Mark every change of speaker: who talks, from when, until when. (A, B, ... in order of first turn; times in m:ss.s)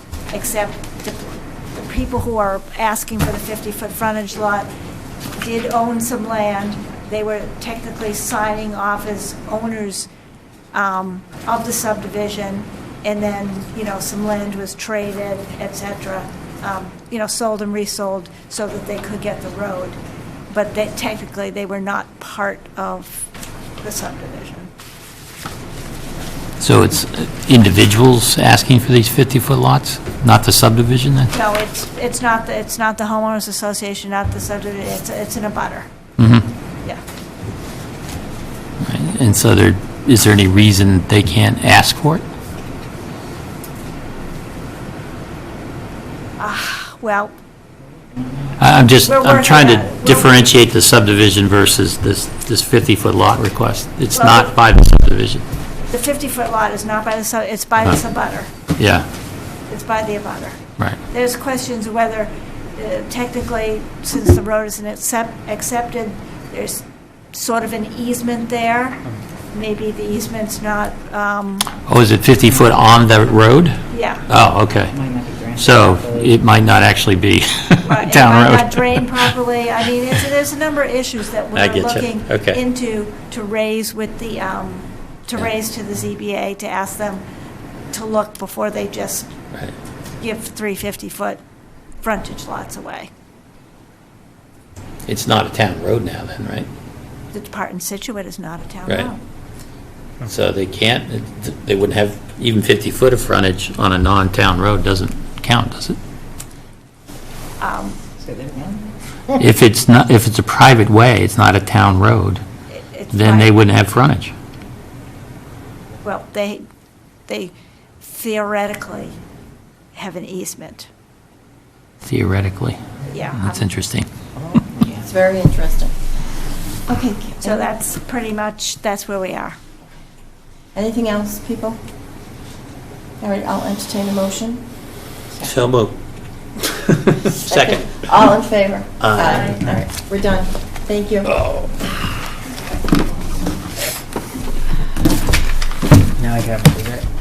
0:00.3-0:04.7 A
0:05.4-0:10.1 A
0:10.7-0:20.0 A
0:20.5-0:24.7 A
0:26.6-0:31.3 B
0:31.3-0:35.9 A
0:36.2-0:36.5 B
0:38.8-0:42.2 B
0:46.4-0:47.3 A
0:48.6-0:55.4 B
0:49.0-0:50.4 A
0:54.1-0:54.5 A
0:55.9-0:58.5 A
0:58.8-0:59.1 B
0:59.7-1:11.7 A
1:11.8-1:14.9 B
1:13.9-1:14.2 A
1:14.9-1:16.3 C
1:15.5-1:19.3 B
1:17.8-1:27.2 A
1:21.5-1:22.6 B
1:27.9-1:29.3 A
1:30.2-1:31.4 A
1:32.0-1:33.1 A
1:35.0-1:36.7 B
1:37.3-1:39.2 A
1:40.2-1:46.0 B
1:47.6-1:48.0 A
1:48.2-1:48.9 C
1:49.4-1:52.4 B
1:52.7-1:53.6 A
1:53.1-1:54.3 B
1:56.0-1:56.6 A
1:57.3-1:59.2 A
1:59.9-2:00.9 A
2:02.0-2:02.8 B
2:03.1-2:03.7 A
2:03.3-2:04.1 B
2:04.5-2:05.0 C
2:05.0-2:05.9 D
2:06.9-2:07.7 D
2:07.4-2:09.6 A
2:10.7-2:11.8 D
2:13.2-2:14.6 D
2:15.4-2:16.0 B
2:16.6-2:18.0 B
2:17.3-2:21.3 D
2:19.0-2:19.6 B
2:21.3-2:21.7 B
2:26.2-2:27.0 B